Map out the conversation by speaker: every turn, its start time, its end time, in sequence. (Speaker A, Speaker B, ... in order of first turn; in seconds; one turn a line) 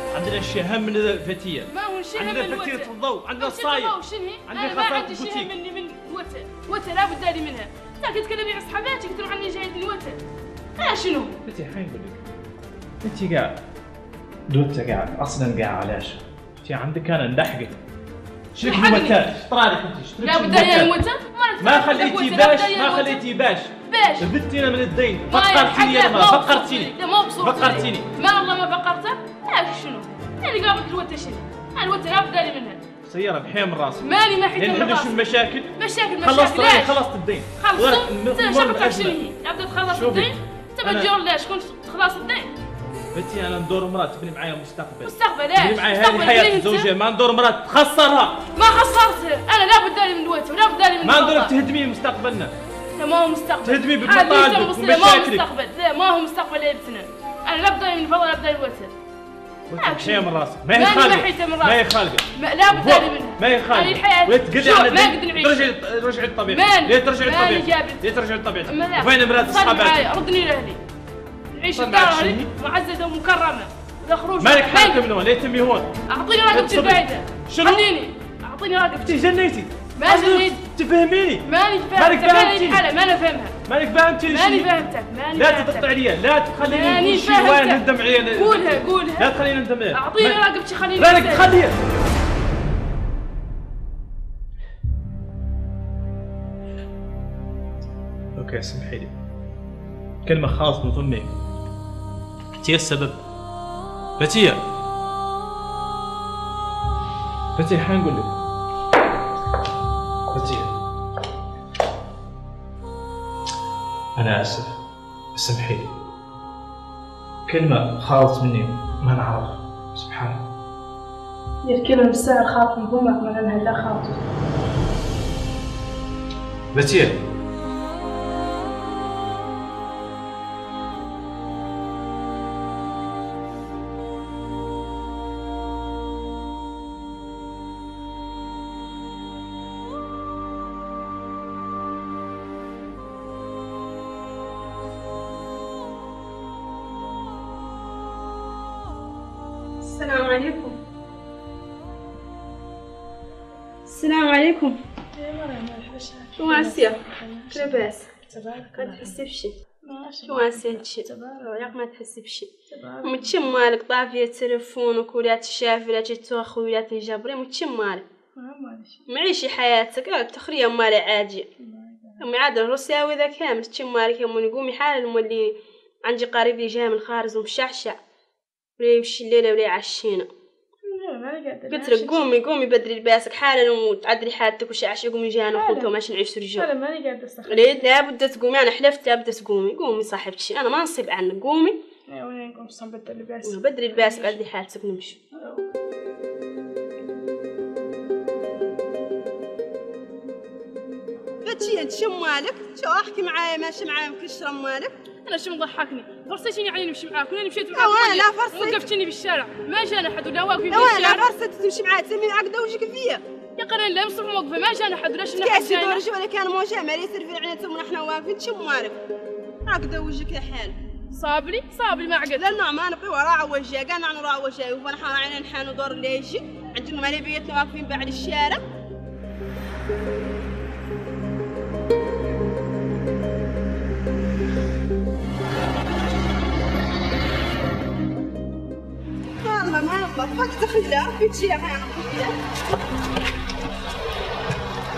Speaker A: 0.1-3.9
Speaker B: 1.7-10.2
Speaker A: 4.5-5.5
Speaker B: 10.8-11.3
Speaker A: 11.4-12.2
Speaker A: 13.0-13.6
Speaker A: 14.5-17.8
Speaker A: 18.5-20.9
Speaker B: 18.6-19.2
Speaker B: 20.2-23.2
Speaker A: 21.6-28.1
Speaker B: 23.9-24.3
Speaker B: 25.3-32.8
Speaker A: 33.0-39.2
Speaker B: 34.0-35.2
Speaker B: 35.7-37.0
Speaker B: 37.5-42.5
Speaker A: 39.9-40.3
Speaker A: 40.8-41.1
Speaker A: 43.1-48.5
Speaker B: 45.0-46.9
Speaker B: 48.5-51.5
Speaker A: 51.0-52.5
Speaker B: 53.0-58.9
Speaker A: 53.6-55.5
Speaker A: 59.7-70.1
Speaker B: 59.8-65.7
Speaker B: 66.5-70.8
Speaker B: 71.5-75.0
Speaker A: 71.7-72.5
Speaker A: 74.4-75.9
Speaker B: 76.1-79.2
Speaker A: 76.5-77.9
Speaker A: 78.9-82.8
Speaker B: 80.0-80.6
Speaker B: 81.4-83.5
Speaker A: 83.7-84.7
Speaker B: 84.3-85.9
Speaker A: 85.3-90.4
Speaker B: 86.6-89.3
Speaker B: 89.9-91.5
Speaker A: 91.0-91.8
Speaker A: 98.3-99.1
Speaker A: 100.2-101.3
Speaker A: 102.6-103.2
Speaker A: 104.2-104.6
Speaker A: 107.5-108.3
Speaker A: 110.3-110.7
Speaker A: 114.2-114.7
Speaker A: 115.3-115.9
Speaker A: 117.5-120.4
Speaker B: 121.6-124.2
Speaker A: 126.7-127.2
Speaker C: 149.8-150.8
Speaker C: 153.8-154.8
Speaker B: 155.2-159.2
Speaker C: 156.4-157.0
Speaker C: 157.5-158.1
Speaker C: 158.7-159.5
Speaker B: 159.8-161.7
Speaker C: 160.3-162.5
Speaker B: 162.7-163.5
Speaker C: 163.0-168.1
Speaker B: 168.4-169.0
Speaker C: 169.1-171.4
Speaker B: 171.6-172.2
Speaker C: 172.2-178.0
Speaker C: 178.8-180.3
Speaker B: 180.9-182.2
Speaker C: 181.7-186.7
Speaker B: 185.5-185.9
Speaker B: 186.5-187.8
Speaker C: 187.5-191.7
Speaker B: 192.1-194.4
Speaker C: 193.4-195.2
Speaker B: 195.4-195.6
Speaker C: 201.4-204.9
Speaker B: 205.2-211.3
Speaker C: 207.7-208.8
Speaker C: 210.7-213.2
Speaker B: 213.6-216.0
Speaker C: 215.3-219.0
Speaker C: 219.7-220.8
Speaker B: 221.1-222.4
Speaker C: 222.3-228.6
Speaker C: 239.4-242.3